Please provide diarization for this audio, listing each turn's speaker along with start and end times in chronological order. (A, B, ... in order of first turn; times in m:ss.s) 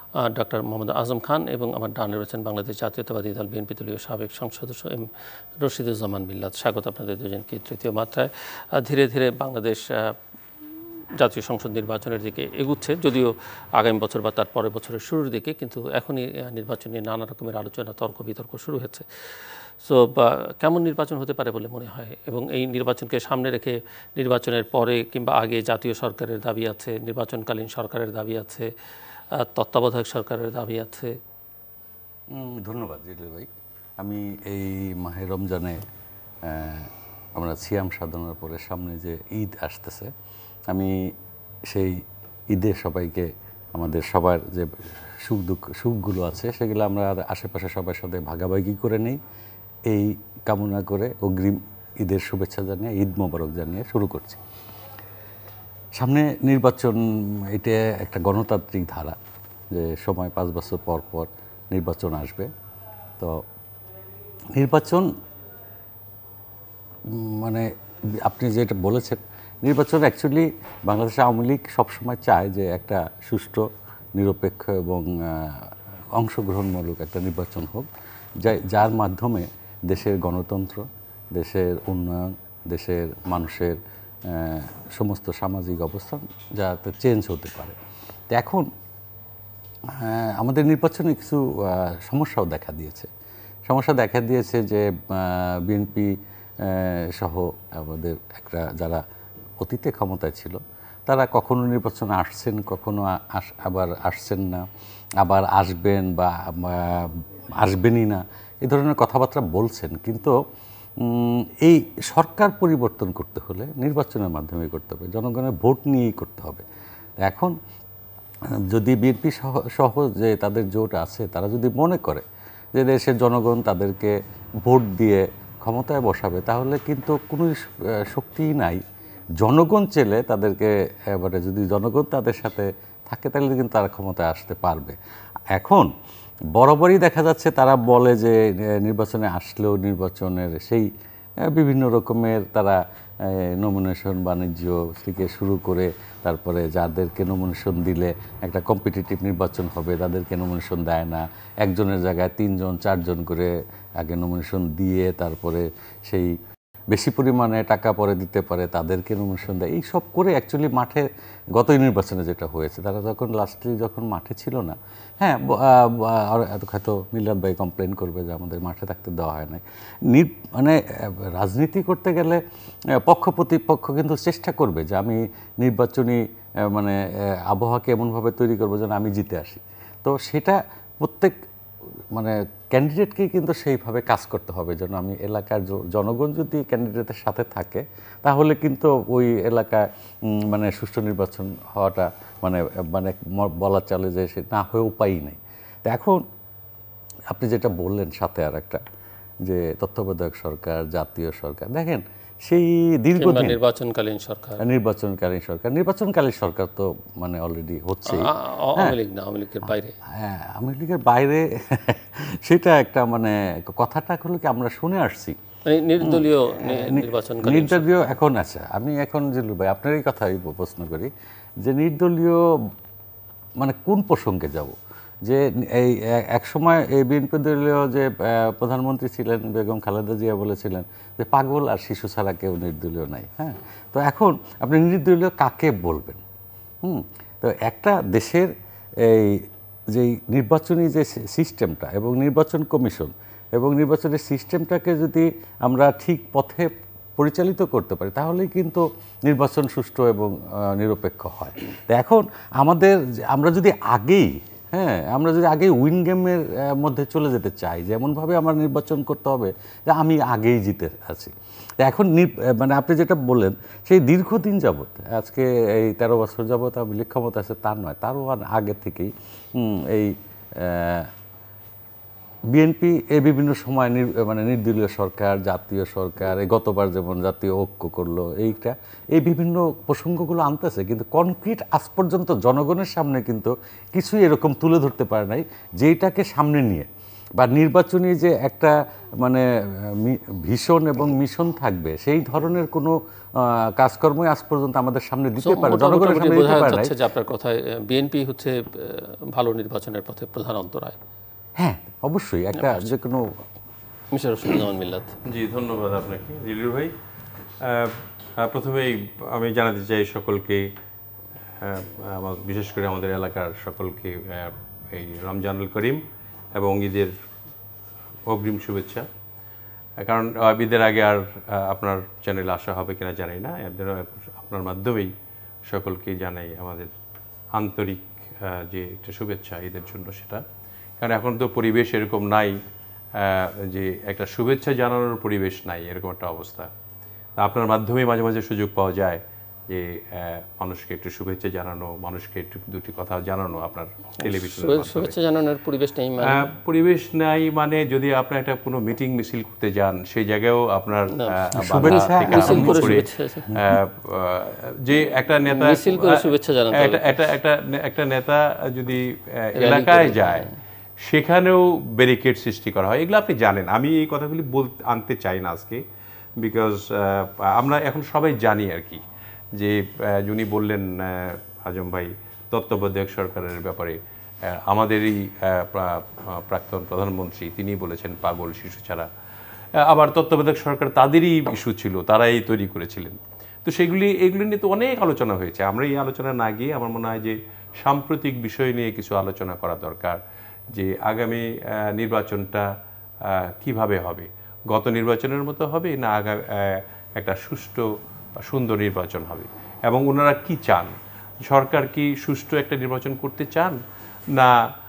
0:00.2-0:10.1 A
0:11.2-0:28.7 A
0:29.3-0:31.2 A
0:32.3-0:33.5 B
0:34.0-0:35.8 B
0:36.4-0:40.1 B
0:40.7-0:41.1 B
0:41.7-0:49.2 B
0:49.9-0:54.4 B
0:56.0-0:59.2 B
0:59.7-1:02.5 B
1:04.5-1:05.1 B
1:07.0-1:07.7 B
1:08.2-1:27.8 B
1:28.3-1:28.7 B
1:29.9-1:33.1 B
1:33.7-1:39.0 B
1:39.6-1:44.6 B
1:45.2-1:50.4 B
1:51.0-1:56.6 B
1:57.2-1:57.5 B
1:58.7-2:08.8 B
2:09.4-2:15.0 B
2:15.5-2:15.9 B
2:16.5-2:20.9 B
2:21.5-2:36.3 B
2:36.9-2:52.4 B
2:53.0-3:01.3 B
3:02.1-3:16.2 B
3:17.3-3:18.8 B
3:19.4-3:23.6 B
3:23.2-3:24.6 A
3:24.6-3:29.0 B
3:28.0-3:30.0 A
3:30.1-3:35.4 B
3:35.6-3:37.9 A
3:36.0-3:41.1 B
3:41.6-3:42.4 B
3:43.6-3:56.2 B
3:56.8-4:31.1 B
4:32.5-4:56.9 B
4:55.4-5:01.0 A
5:01.6-5:03.4 B
5:02.6-5:02.8 A
5:04.1-5:05.2 A
5:05.2-5:06.9 C
5:07.6-5:10.7 C
5:11.6-5:16.0 C
5:16.5-5:17.1 C
5:18.3-5:19.0 C
5:20.0-5:25.1 C
5:25.6-5:26.9 C
5:27.5-5:30.4 C
5:31.0-5:32.6 C
5:33.2-5:36.7 C
5:37.4-5:45.1 C
5:44.2-5:46.4 A
5:46.2-6:00.5 C
5:51.1-5:53.5 A
5:51.6-5:53.8 B
5:55.5-5:57.1 A
5:59.6-6:00.5 A
6:01.0-6:05.8 C
6:06.4-6:09.0 C
6:09.6-6:19.1 C
6:19.8-6:30.2 C
6:30.7-6:32.7 C
6:33.2-6:37.8 C
6:38.4-6:43.8 C